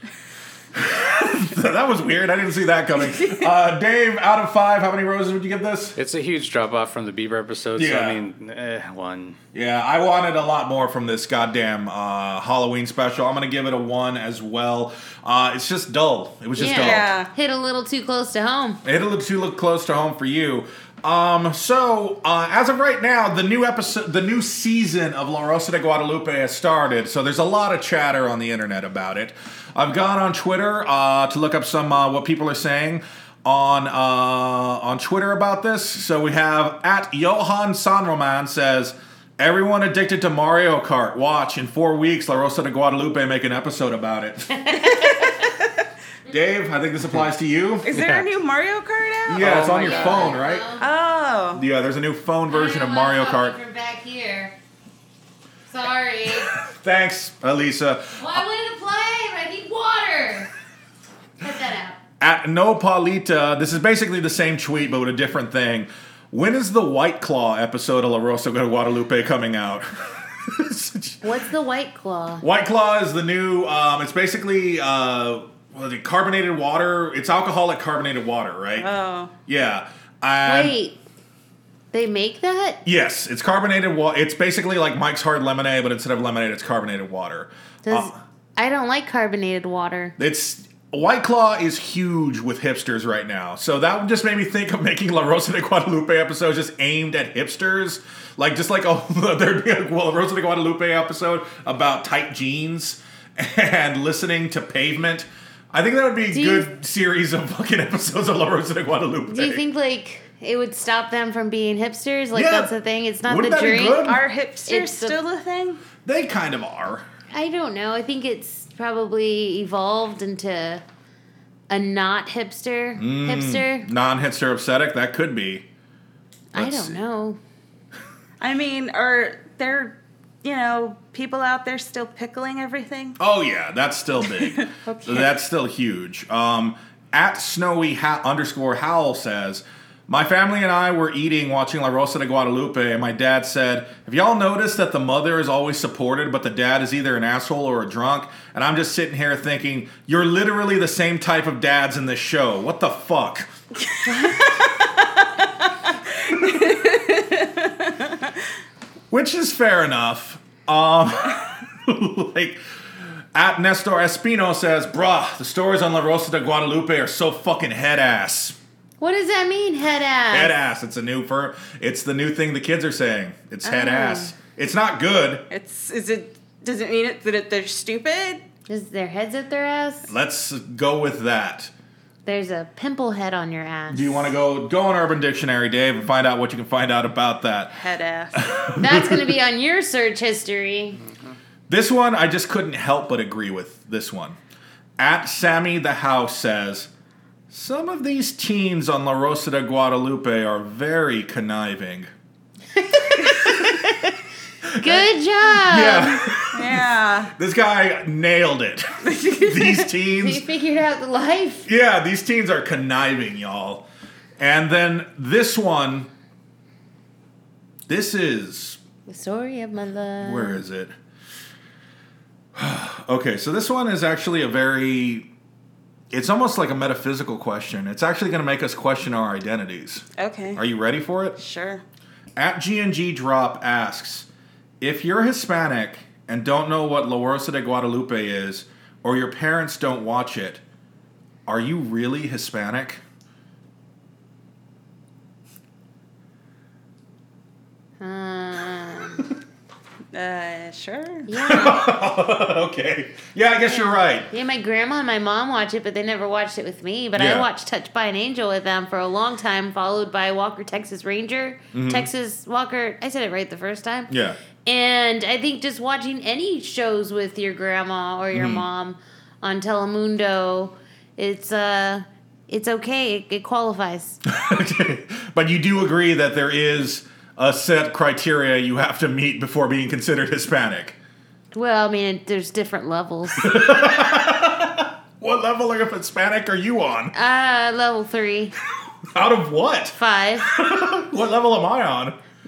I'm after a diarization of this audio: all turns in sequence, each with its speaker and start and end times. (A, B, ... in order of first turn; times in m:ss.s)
0:00.7-0:05.9 A
0:03.0-0:03.5 B
0:06.0-0:09.4 C
0:07.7-0:08.2 A
0:09.5-0:17.1 A
0:16.6-0:18.8 D
0:16.7-0:17.3 B
0:18.8-0:44.8 A
0:44.7-0:45.5 D
0:46.3-0:47.9 A
0:47.8-0:51.6 B
0:47.9-0:48.2 C
0:49.3-0:50.6 A
0:49.4-0:49.8 C
0:49.8-0:50.8 D
0:51.5-0:53.6 A
0:52.5-0:54.5 D
0:55.7-0:56.5 D
0:56.6-0:58.4 A
0:58.2-1:00.5 D
1:01.4-1:02.0 D
1:02.2-1:11.2 A
1:11.2-1:12.4 D
1:12.4-1:18.9 A
1:18.8-1:19.3 B
1:19.5-1:20.7 A
1:20.4-1:21.0 D
1:21.9-1:22.8 D
1:22.8-1:28.2 A
1:27.8-1:30.2 D
1:30.2-1:49.6 A
1:46.3-1:46.7 D
1:49.3-1:54.0 D
1:52.3-1:52.7 A
1:53.2-1:54.2 A
1:54.0-1:55.8 B
1:54.7-1:55.2 D
1:56.0-1:57.0 A
1:57.3-2:00.8 D
2:01.7-2:03.9 D
2:03.0-2:05.6 A
2:06.5-2:07.4 D
2:06.5-2:07.0 A
2:08.4-2:13.2 B
2:13.2-2:33.5 A
2:14.2-2:15.3 B
2:33.8-2:38.3 B
2:39.1-2:42.6 A
2:43.3-2:48.6 A
2:49.0-2:50.5 D
2:50.3-2:55.4 A
2:53.6-2:54.1 B
2:53.9-2:54.3 D
2:55.5-2:58.4 B
2:58.7-3:00.1 D
3:00.1-3:01.7 A
3:02.2-3:04.3 D
3:03.9-3:07.7 A
3:07.7-3:08.5 B
3:08.3-3:09.3 A
3:08.8-3:11.0 D
3:11.7-3:14.4 A
3:15.0-3:16.9 A
3:17.5-3:22.1 A
3:22.8-3:24.1 D
3:24.6-3:30.4 A
3:24.8-3:26.2 D
3:26.5-3:27.3 B
3:29.0-3:29.9 B
3:30.2-3:31.7 D
3:31.6-3:33.8 A
3:34.4-3:36.1 A
3:37.9-3:38.8 A
3:39.1-3:40.6 D
3:40.2-3:40.9 A
3:42.5-3:45.3 A
3:46.1-3:50.0 A
3:50.2-3:50.6 B
3:50.6-3:51.4 A
3:51.4-3:51.8 B
3:52.4-3:54.3 A
3:54.8-4:00.6 A
4:01.5-4:03.0 A
4:08.0-4:09.2 D
4:10.1-4:11.3 B
4:11.3-4:11.9 D
4:11.4-4:14.3 A
4:14.3-4:24.1 D
4:17.2-4:17.5 A
4:21.7-4:22.1 A
4:24.1-4:24.4 A
4:24.6-4:34.2 D
4:28.3-4:28.6 A
4:34.3-4:41.0 A
4:41.5-4:43.6 D
4:43.4-4:47.1 A
4:47.1-4:48.6 D
4:49.1-4:52.1 A
4:49.9-4:50.5 D